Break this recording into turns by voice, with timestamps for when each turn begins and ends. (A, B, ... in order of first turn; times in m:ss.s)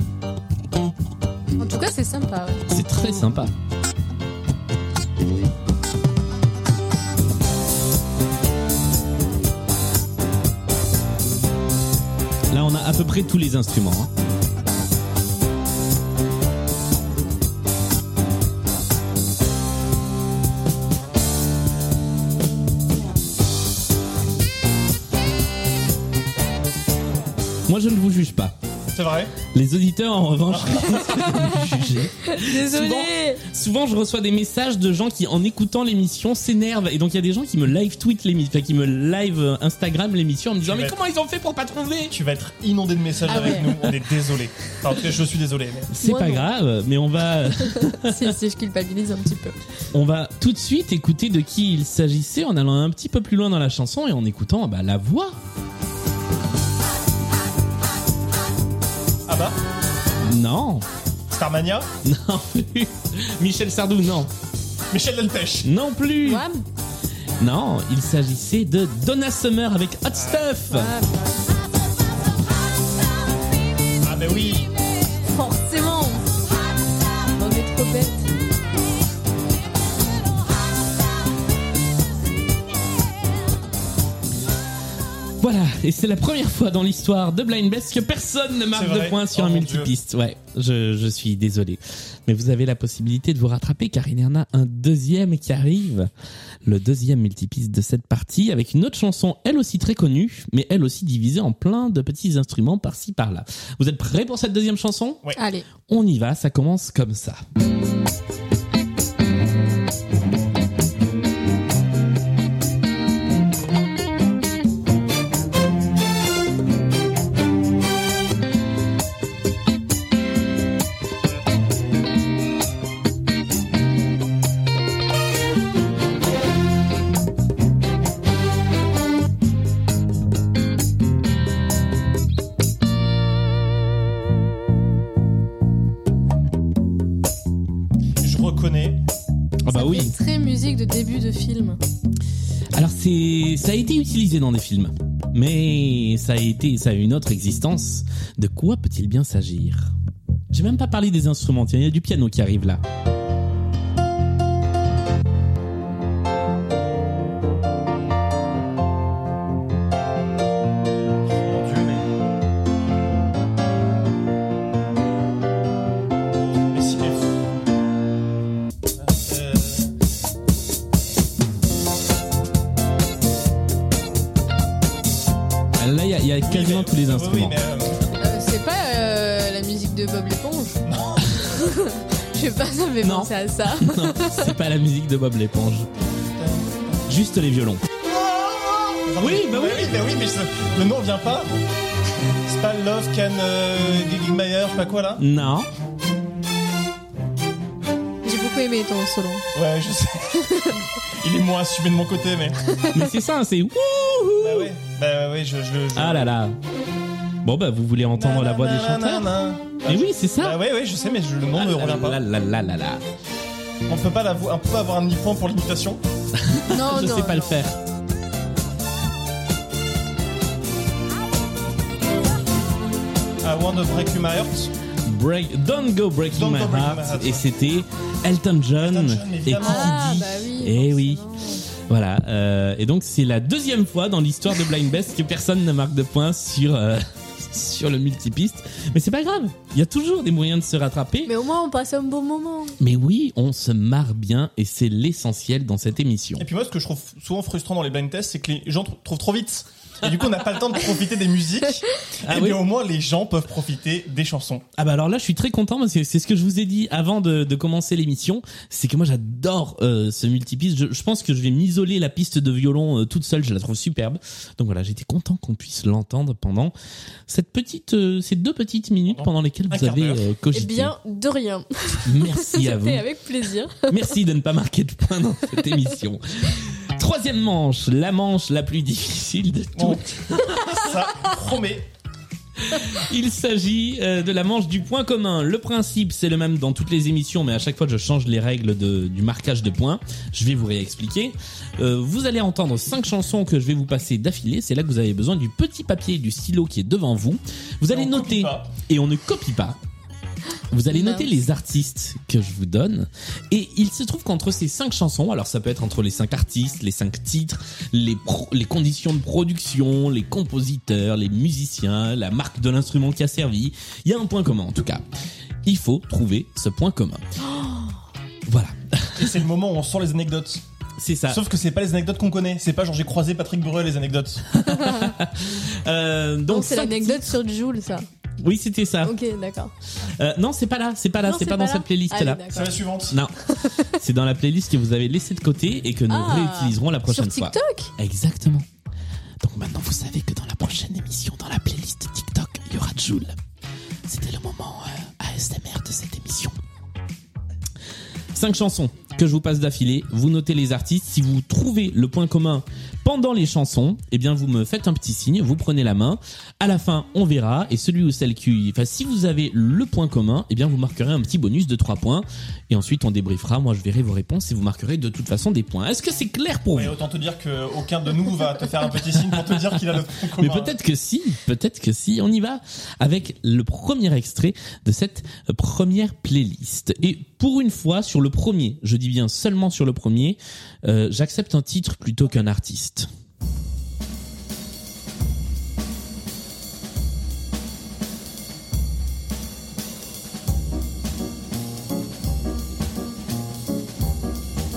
0:01.6-0:02.6 A
0:02.7-0:03.5 B
0:12.5-0:14.1 B
0:27.7-0:28.6 B
0:29.0-0:29.4 C
0:29.5-0:42.2 B
0:30.5-0:31.4 C
0:32.2-0:33.4 A
0:40.6-0:41.0 C
0:42.1-0:45.9 C
0:43.3-0:43.9 A
0:45.9-0:48.3 B
0:46.0-0:46.5 A
0:47.7-0:49.6 A
0:49.9-0:55.4 B
0:59.3-0:59.6 C
1:00.3-1:00.8 B
1:01.3-1:01.9 C
1:02.0-1:04.3 B
1:04.9-1:05.7 C
1:05.6-1:06.4 B
1:06.2-1:06.6 A
1:07.4-1:10.9 B
1:10.1-1:10.5 C
1:10.7-1:11.4 A
1:14.0-1:14.7 C
1:15.3-1:16.2 A
1:17.4-1:18.3 A
1:25.4-1:36.1 B
1:28.7-1:29.9 C
1:36.6-1:45.2 B
1:45.4-1:45.7 A
1:45.9-1:47.4 B
2:18.2-2:19.0 C
2:19.6-2:20.1 B
2:19.7-2:21.8 A
2:22.7-2:29.9 B
2:30.5-2:32.8 B
2:41.3-2:42.1 C
2:46.7-2:47.3 C
2:49.0-2:49.9 C
2:55.8-2:57.6 B
2:56.4-2:58.1 C
2:58.2-3:00.8 A
3:00.9-3:01.5 C
3:01.5-3:04.5 A
3:03.0-3:05.9 B
3:06.1-3:07.0 C
3:07.1-3:07.8 B
3:08.1-3:11.5 C
3:09.2-3:10.0 B
3:12.5-3:15.2 C
3:15.2-3:15.7 B
3:18.2-3:19.4 A
3:19.6-3:22.6 C
3:22.9-3:24.7 B
3:24.4-3:26.3 C
3:26.0-3:26.6 B
3:27.4-3:29.3 B
3:28.2-3:32.2 C
3:29.9-3:30.6 B
3:31.5-3:33.0 B
3:33.9-3:36.0 C
3:36.4-3:37.8 B
3:36.7-3:37.6 A
3:43.4-3:44.7 C
3:45.1-3:51.2 B
3:46.3-3:47.5 C
3:48.8-3:50.0 C
3:49.6-3:51.6 A
3:51.9-4:01.3 B
4:01.3-4:02.8 A
4:02.8-4:06.5 B
4:06.4-4:14.6 C
4:12.3-4:12.6 B
4:14.8-4:26.7 B
4:27.3-4:30.9 B
4:29.1-4:30.2 C
4:30.5-4:34.0 A
4:32.1-4:33.0 B
4:33.9-4:40.8 B
4:39.8-4:41.9 C
4:42.7-4:59.8 B
4:57.9-4:58.7 C
5:00.7-5:15.0 B
5:00.9-5:01.3 A
5:15.6-5:17.2 B
5:17.4-5:17.9 A
5:18.5-5:19.4 B
5:19.2-5:20.6 C
5:21.0-5:21.4 B
5:21.3-5:24.5 C
5:24.5-5:27.4 B
5:24.7-5:25.0 A
5:26.5-5:28.1 A
5:28.4-5:29.1 B
5:29.0-5:29.7 A
5:30.2-5:32.5 B
5:31.2-5:32.8 A
5:32.5-5:33.2 C
5:33.1-5:38.6 B
5:33.5-5:33.9 A
5:36.1-5:37.9 A
5:39.4-5:43.4 B
5:44.1-5:46.6 B
5:48.3-6:07.0 B
6:06.7-6:10.8 C
6:09.3-6:09.7 B
6:10.4-6:23.1 B